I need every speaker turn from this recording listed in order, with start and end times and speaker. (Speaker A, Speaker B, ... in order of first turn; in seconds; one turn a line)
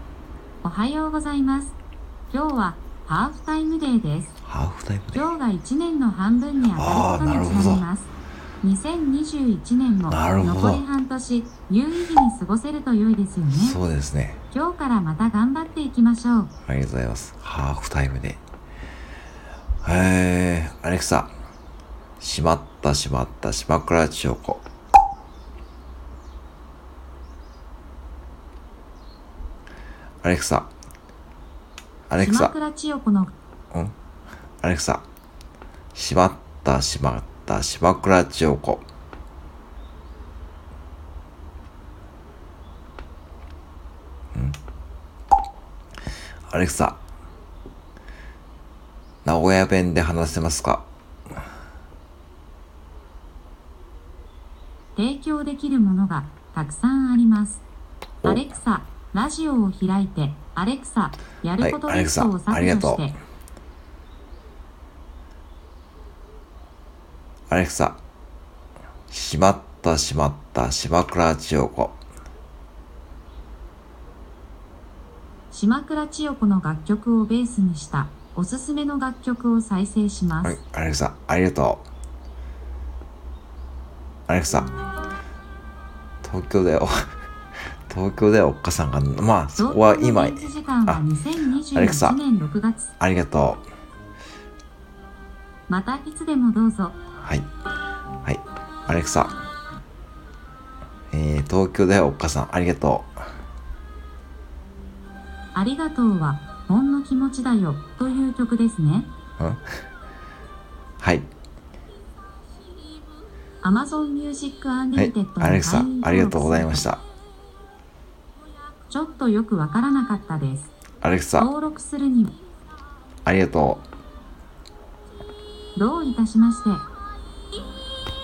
Speaker A: 0.6-1.8
Speaker A: 2.3-4.3
Speaker B: 4.5-5.3
Speaker A: 5.1-13.8
Speaker B: 6.8-7.8
Speaker B: 10.1-10.8
Speaker B: 13.5-14.4
Speaker A: 14.5-16.5
Speaker B: 16.7-18.4
Speaker B: 19.8-21.3
Speaker B: 22.2-24.6
Speaker B: 30.2-30.7
Speaker B: 32.1-32.5
Speaker A: 32.2-33.3
Speaker B: 34.6-35.0
Speaker B: 35.9-38.8
Speaker B: 46.5-47.0
Speaker B: 49.2-50.9
Speaker A: 55.0-57.6
Speaker B: 58.2-58.5
Speaker A: 58.2-63.2
Speaker B: 61.6-63.1
Speaker B: 67.5-68.0
Speaker B: 69.1-72.0
Speaker A: 75.5-80.6
Speaker B: 80.4-81.8
Speaker B: 84.3-84.7
Speaker B: 86.2-86.9
Speaker B: 87.9-91.0
Speaker A: 89.6-92.9
Speaker B: 91.7-92.2
Speaker B: 93.0-93.6
Speaker A: 95.7-97.0
Speaker B: 97.2-97.5
Speaker B: 98.2-99.3
Speaker B: 101.1-103.1
Speaker A: 105.5-109.1
Speaker B: 109.4-109.7
Speaker B: 111.0-111.3
Speaker A: 113.6-116.9
Speaker B: 115.0-117.0
Speaker A: 118.9-120.7
Speaker B: 121.0-121.5
Speaker A: 121.4-122.4
Speaker B: 123.3-123.8
Speaker A: 125.8-126.9